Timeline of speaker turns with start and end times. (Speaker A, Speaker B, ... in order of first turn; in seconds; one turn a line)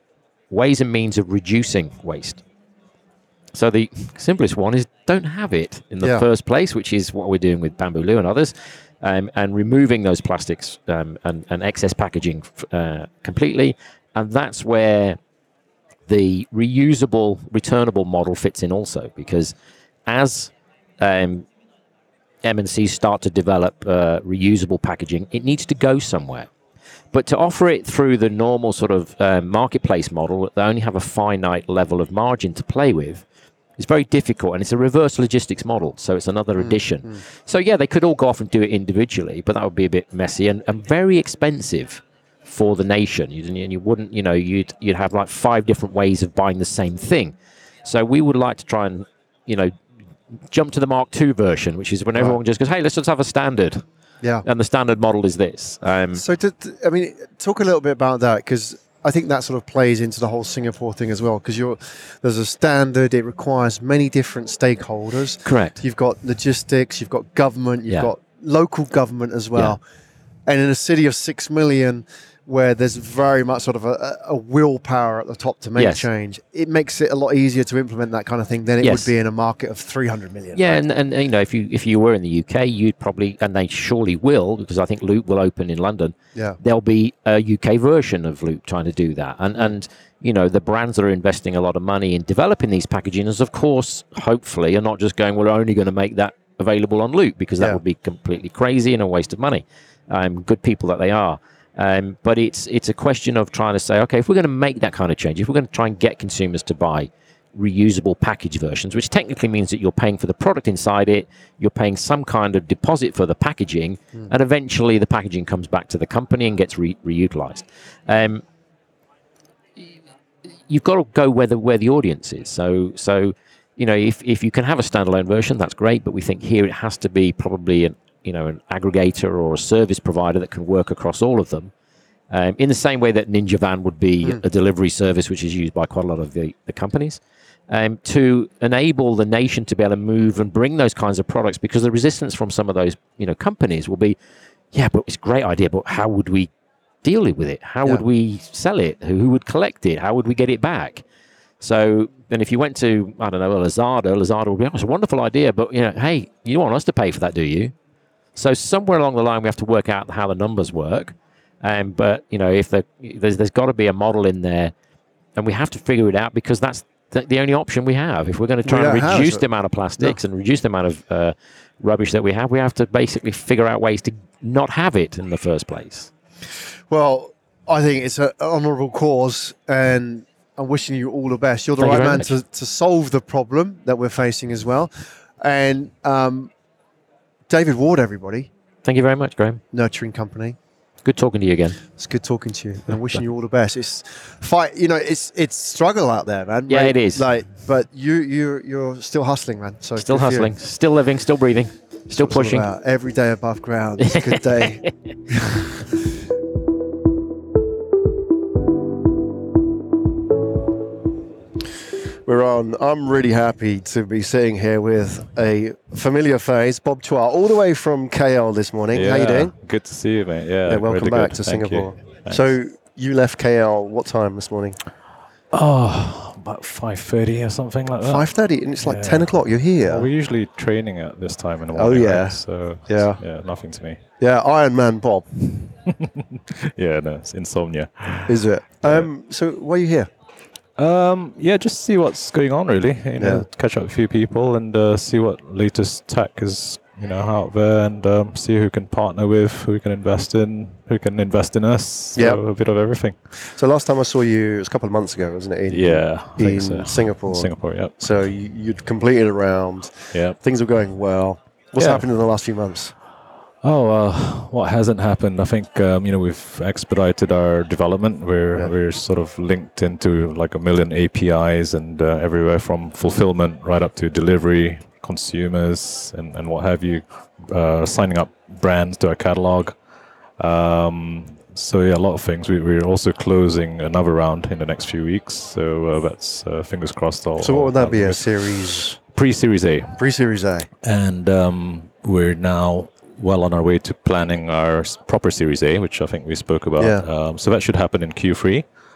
Speaker A: 0.5-2.4
Speaker A: 3.5-15.2
Speaker B: 6.0-6.3
Speaker A: 16.1-19.5
Speaker A: 20.1-21.5
Speaker A: 22.4-26.5
Speaker A: 27.1-33.2
Speaker A: 33.8-49.8
Speaker B: 36.6-37.2
Speaker A: 50.5-53.8
Speaker A: 54.4-56.2
Speaker B: 56.1-69.8
Speaker A: 65.5-65.8
Speaker B: 70.5-80.8
Speaker A: 75.8-76.1
Speaker A: 78.8-79.1
Speaker A: 80.5-118.4
Speaker A: 120.7-131.7
Speaker A: 132.3-144.2
Speaker A: 144.7-146.5
Speaker A: 147.0-151.0
Speaker A: 151.6-157.7
Speaker A: 158.3-164.7
Speaker A: 165.4-176.1
Speaker B: 168.7-169.5
Speaker B: 176.9-186.5
Speaker A: 181.8-182.4
Speaker B: 187.5-188.5
Speaker A: 188.8-189.6
Speaker B: 189.7-190.6
Speaker A: 191.0-191.8
Speaker B: 192.0-200.5
Speaker A: 196.7-197.3
Speaker A: 200.0-202.7
Speaker B: 202.1-205.4
Speaker A: 204.0-204.9
Speaker B: 212.3-219.6
Speaker C: 218.9-222.5
Speaker B: 220.7-224.8
Speaker C: 225.5-228.3
Speaker B: 228.0-230.1
Speaker C: 228.8-234.0
Speaker B: 231.7-233.2
Speaker B: 234.2-235.3
Speaker C: 235.6-239.1
Speaker B: 238.3-240.1
Speaker C: 240.8-253.2
Speaker B: 243.2-243.5
Speaker B: 252.2-252.4
Speaker B: 253.4-262.9
Speaker C: 255.7-258.3
Speaker C: 260.1-260.4
Speaker C: 261.8-262.1
Speaker C: 263.6-279.8
Speaker C: 280.4-290.0
Speaker B: 287.4-289.0
Speaker B: 290.0-290.7
Speaker C: 290.8-298.6
Speaker B: 296.8-297.1